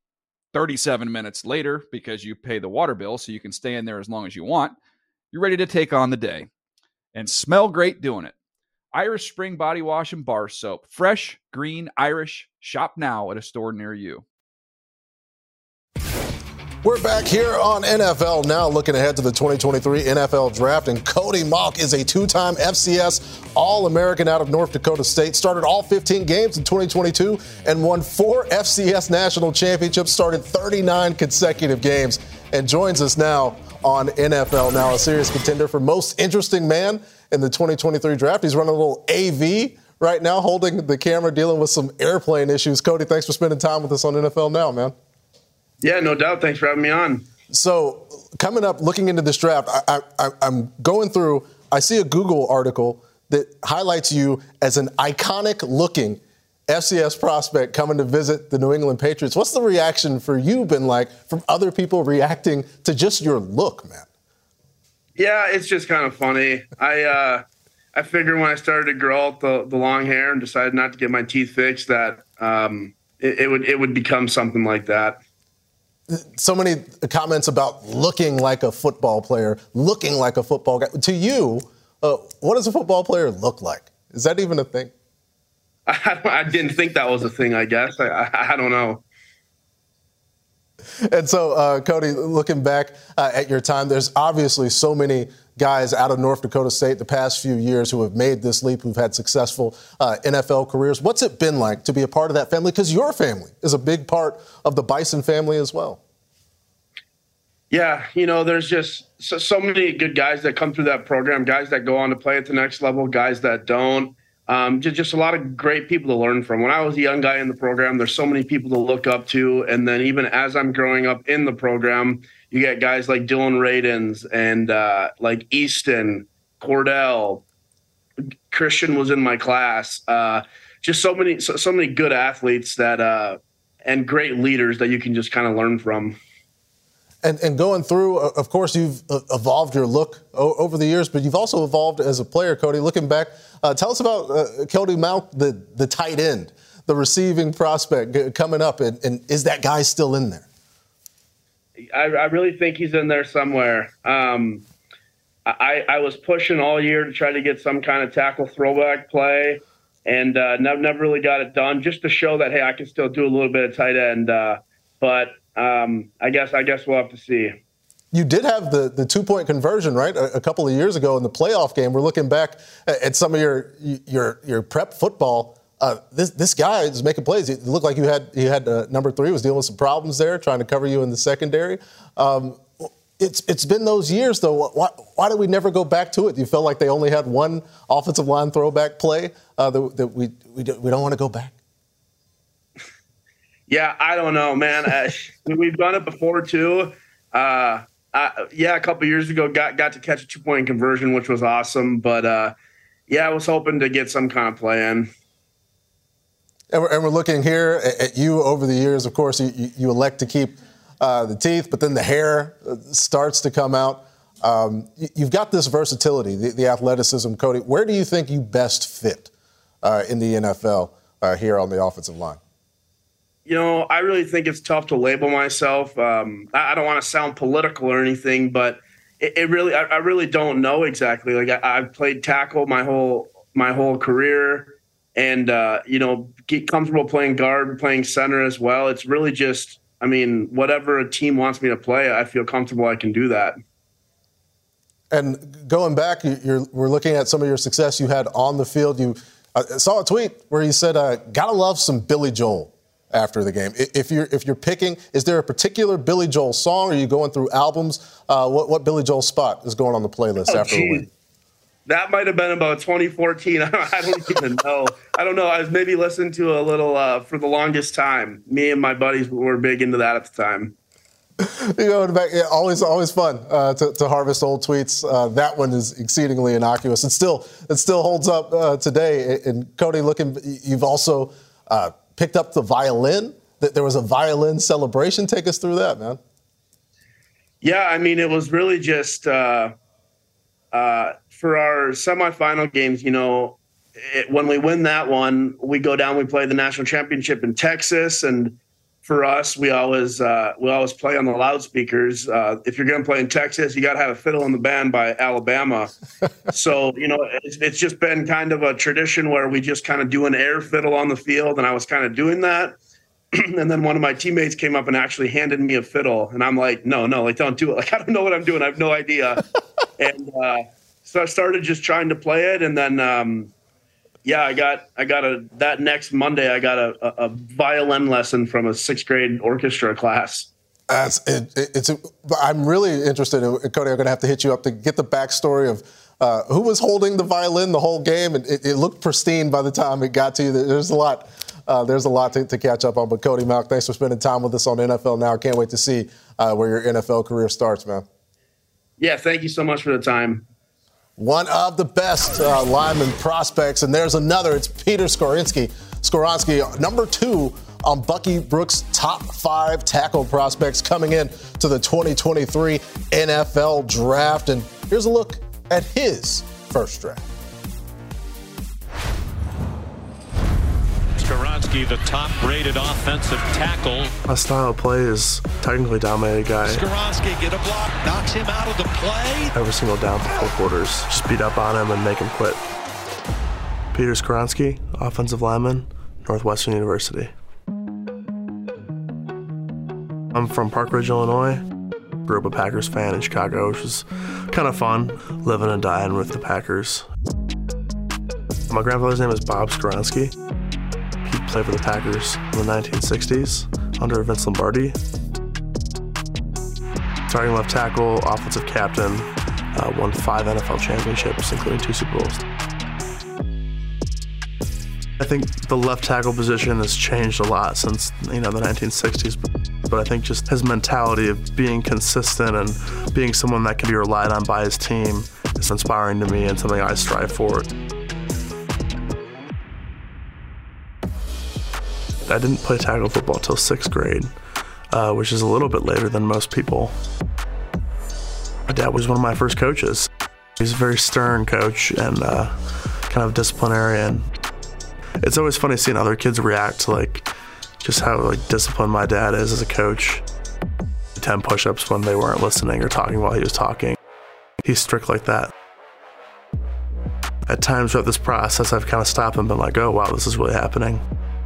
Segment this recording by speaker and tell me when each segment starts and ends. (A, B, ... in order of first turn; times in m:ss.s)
0:00.5-0:04.8 A
0:05.3-0:06.5 A
0:07.1-0:08.3 A
0:08.9-0:14.2 A
0:16.8-0:45.0 B
0:45.8-0:47.3 C
0:47.5-1:04.1 B
1:05.2-1:07.4 C
1:07.9-1:15.2 C
1:16.1-1:24.9 B
1:25.9-1:29.0 C
1:31.0-1:46.0 B
1:47.7-2:07.4 C
2:08.5-2:16.2 C
2:17.2-2:30.5 B
2:31.9-2:34.6 C
2:35.5-2:47.6 C
2:48.1-3:11.6 B
3:13.7-3:22.5 C
3:23.1-3:25.1 C
3:26.7-3:39.3 B
3:39.8-3:42.4 B
3:43.5-4:03.6 C
4:05.1-4:21.1 B
4:20.5-4:21.1 C
4:21.9-4:30.7 C
4:31.4-4:46.2 B
4:47.6-4:49.7 C
4:50.7-5:05.9 C
5:06.5-5:12.8 C
5:13.3-5:19.4 C
5:20.0-5:23.5 C
5:24.2-5:30.5 C
5:30.9-5:48.1 B
5:49.0-5:50.4 C
5:51.2-6:07.2 B
6:11.2-6:14.1 D
6:14.3-6:16.8 E
6:16.6-6:19.5 D
6:19.5-6:22.6 E
6:23.9-6:27.3 E
6:30.3-6:31.6 E
6:32.2-6:37.1 E
6:38.7-6:40.3 E
6:41.2-6:45.0 E
6:47.3-6:52.4 E
6:55.2-7:07.7 E
7:12.3-7:14.3 E
7:14.9-7:17.0 E
7:18.7-7:20.1 E
7:20.6-7:24.3 E
7:25.2-7:27.3 E
7:27.8-7:30.2 E
7:31.2-7:34.0 E
7:34.6-7:35.5 E
7:37.5-7:41.0 E